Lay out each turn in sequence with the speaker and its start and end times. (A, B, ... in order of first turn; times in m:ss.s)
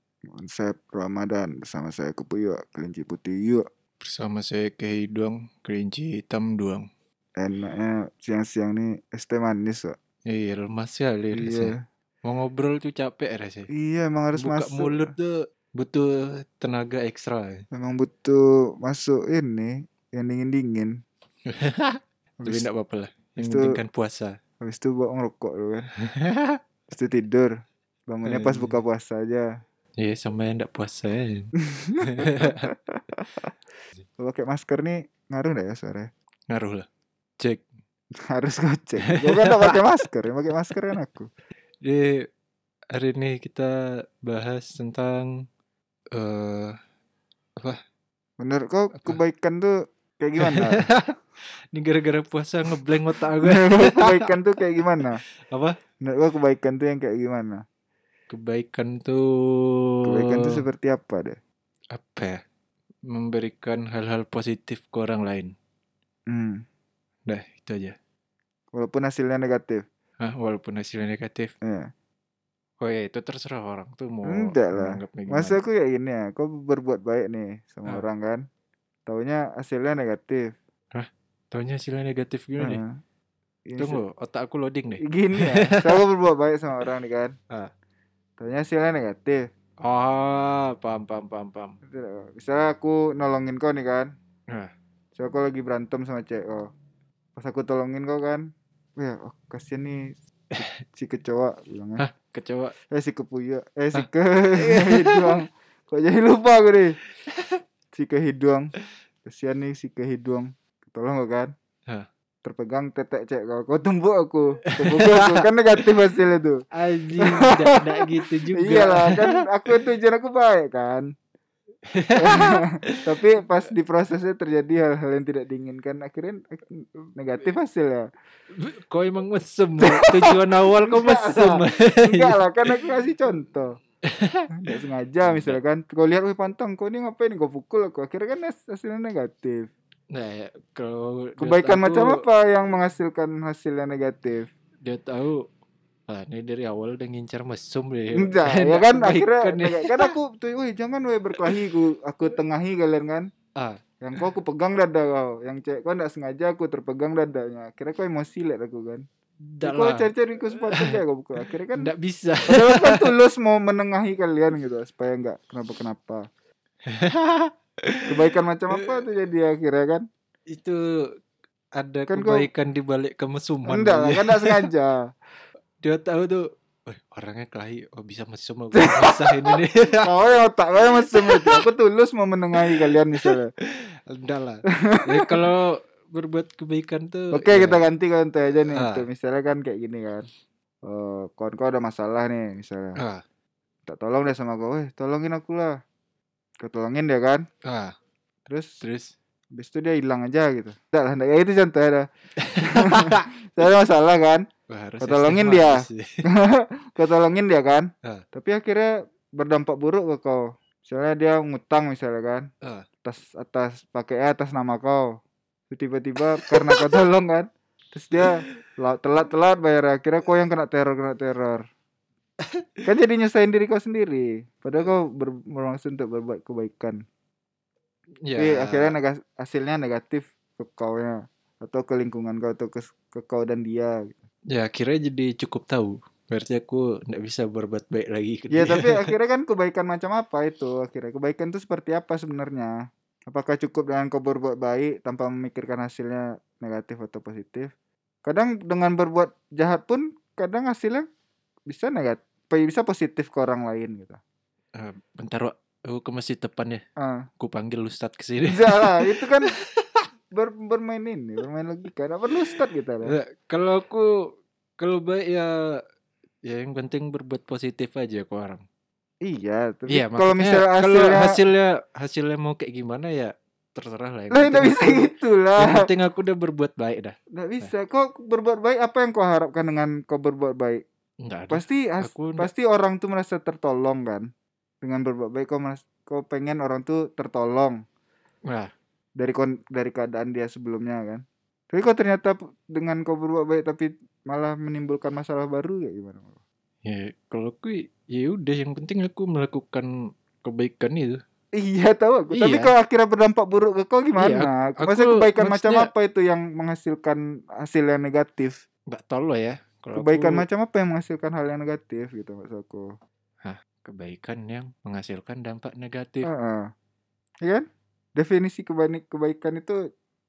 0:00.3-0:03.6 A
0:04.0-0:06.9 B
0:07.4-0:09.9 A
0:10.3-0:11.7 B
0:11.3-0:11.8 A
0:12.2-0:13.7 B
0:13.7-0:15.1 A
0:14.4-0:17.6 B
0:17.7-0:21.0 A
0:21.5-0:24.4 B
0:23.4-0:23.8 A
0:24.6-0:25.9 A
0:26.0-0:26.6 B
0:26.9-0:27.5 A
0:28.1-0:29.5 A
0:28.2-0:28.7 B
0:30.0-0:32.7 B
0:31.6-0:33.2 A
0:34.2-0:36.1 A
0:36.5-0:36.9 B
0:37.4-0:37.6 B
0:38.2-0:41.3 A
0:39.1-0:39.8 B
0:41.8-0:42.3 B
0:42.9-0:45.4 B
0:46.1-0:46.7 B
0:48.4-0:50.9 A
0:50.4-0:51.1 B
0:51.7-0:54.3 B
0:53.4-0:55.2 A
0:54.8-0:55.8 B
0:56.0-0:57.6 A
0:58.3-1:00.6 B
1:00.0-1:01.4 A
1:01.9-1:02.4 B
1:03.1-1:05.5 B
1:06.3-1:06.6 A
1:07.3-1:07.9 B
1:08.7-1:09.8 A
1:10.2-1:11.5 B
1:11.6-1:11.9 A
1:12.8-1:15.6 B
1:14.2-1:18.4 A
1:19.1-1:20.6 A
1:20.9-1:22.8 B
1:22.6-1:23.0 A
1:23.7-1:24.0 A
1:23.8-1:26.0 B
1:25.0-1:27.4 A
1:28.4-1:29.5 A
1:29.8-1:31.8 B
1:31.8-1:34.1 A
1:35.1-1:36.7 A
1:37.4-1:42.0 A
1:42.0-1:42.7 B
1:42.9-1:47.0 A
1:43.9-1:45.4 B
1:47.9-1:48.7 A
1:49.2-1:51.5 A
1:52.4-1:56.6 A
1:54.8-1:55.5 B
1:56.7-1:59.4 B
1:57.2-1:57.6 A
1:58.5-2:01.1 A
2:01.9-2:03.0 B
2:02.2-2:08.1 A
2:08.5-2:12.8 B
2:09.8-2:13.7 A
2:14.1-2:15.6 B
2:14.6-2:19.7 A
2:20.1-2:22.2 B
2:21.4-2:24.5 A
2:24.8-2:25.5 B
2:26.1-2:30.1 B
2:28.1-2:33.3 A
2:33.6-2:33.8 B
2:34.0-2:39.0 A
2:39.5-2:40.1 B
2:39.6-2:41.9 A
2:40.7-2:41.0 B
2:41.7-2:43.1 B
2:42.5-2:46.2 A
2:46.9-2:48.1 B
2:48.1-2:50.0 A
2:50.5-2:51.1 B
2:51.8-2:54.7 B
2:52.1-2:52.5 A
2:53.6-2:55.1 A
2:55.8-3:00.1 B
2:58.7-3:03.5 A
3:01.0-3:01.6 B
3:02.7-3:07.8 B
3:04.7-3:05.4 A
3:07.3-3:10.3 A
3:08.7-3:09.1 B
3:10.8-3:13.0 A
3:13.0-3:13.2 B
3:13.9-3:15.8 A
3:16.6-3:17.4 A
3:17.6-3:17.9 B
3:18.5-3:18.8 A
3:18.8-3:19.1 B
3:19.5-3:22.1 A
3:22.4-3:23.3 B
3:22.6-3:24.4 A
3:24.7-3:26.2 B
3:25.0-3:32.5 A
3:33.0-3:41.6 A
3:36.5-3:36.8 B
3:38.2-3:38.5 B
3:42.8-3:47.0 A
3:48.2-3:49.0 B
3:48.4-3:54.2 A
3:54.5-3:59.1 B
3:58.5-4:02.7 A
4:03.3-4:07.7 A
4:08.2-4:11.1 A
4:11.7-4:14.2 A
4:14.8-4:16.8 B
4:17.0-4:17.3 A
4:17.4-4:20.1 B
4:18.5-4:19.5 A
4:20.3-4:23.1 A
4:23.0-4:25.8 B
4:26.4-4:28.6 B
4:29.2-4:31.3 A
4:29.9-4:37.7 B
4:34.3-4:35.9 A
4:37.3-4:40.8 A
4:41.2-4:42.5 B
4:41.5-4:44.3 A
4:44.8-4:47.8 A
4:49.2-4:56.4 A
4:56.8-5:01.2 B
5:01.6-5:08.6 A
5:02.3-5:02.7 B
5:04.2-5:05.9 B
5:08.9-5:10.4 B
5:09.9-5:12.9 A
5:13.4-5:16.3 B
5:16.2-5:16.7 A
5:17.4-5:19.8 A